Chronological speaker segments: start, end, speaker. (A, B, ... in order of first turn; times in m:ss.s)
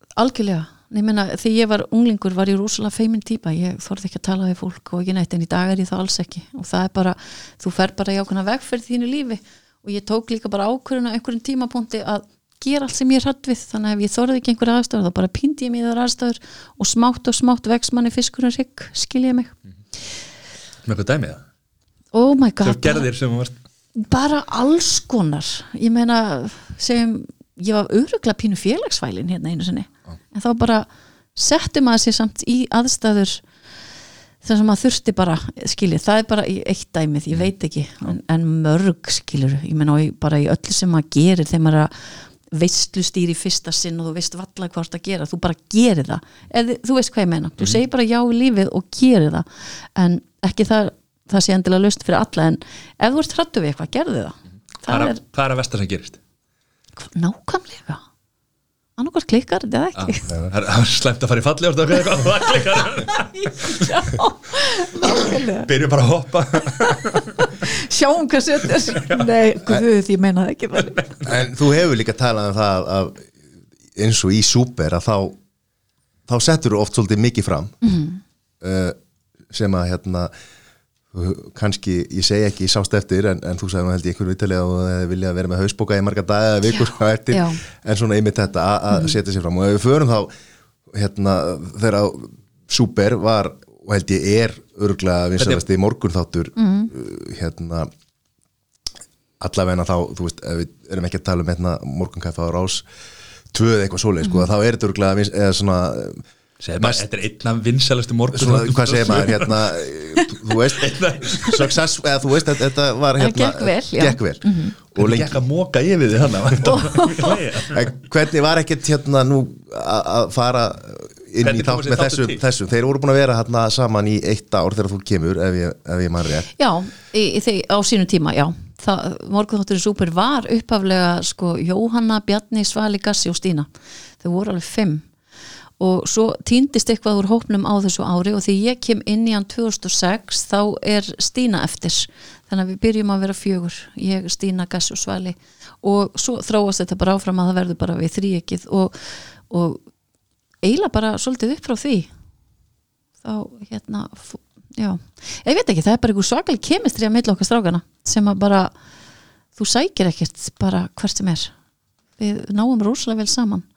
0:00.2-0:19.5 A
0:20.8-0:21.4 B
0:22.1-0:23.1 A
0:22.6-0:23.6 B
0:24.0-0:33.4 A
0:34.4-0:41.9 A
0:42.5-0:55.2 A
0:54.9-0:56.2 B
0:57.0-0:58.0 A
0:59.0-1:00.3 A
1:00.0-1:03.9 B
1:03.3-1:05.7 A
1:05.1-1:07.5 B
1:06.6-1:11.0 A
1:11.2-1:13.3 C
1:14.0-1:15.4 C
1:16.3-1:17.7 C
1:17.8-1:18.2 A
1:18.6-1:19.0 C
1:19.5-1:20.3 C
1:21.1-1:30.3 C
1:26.7-1:27.6 A
1:30.9-1:37.9 C
1:36.6-1:36.9 A
1:39.4-1:42.8 C
1:43.5-1:46.2 C
1:46.6-1:51.8 B
1:46.8-1:47.0 C
1:48.3-1:55.4 C
1:53.2-1:54.7 A
1:55.0-1:57.9 B
1:56.6-1:57.4 A
1:57.7-2:06.5 C
2:01.4-2:02.4 B
2:06.6-2:13.7 A
2:14.2-2:15.0 A
2:15.8-2:29.8 A
2:30.6-2:32.1 A
2:33.2-2:38.7 A
2:39.6-2:41.5 A
2:42.2-2:43.6 A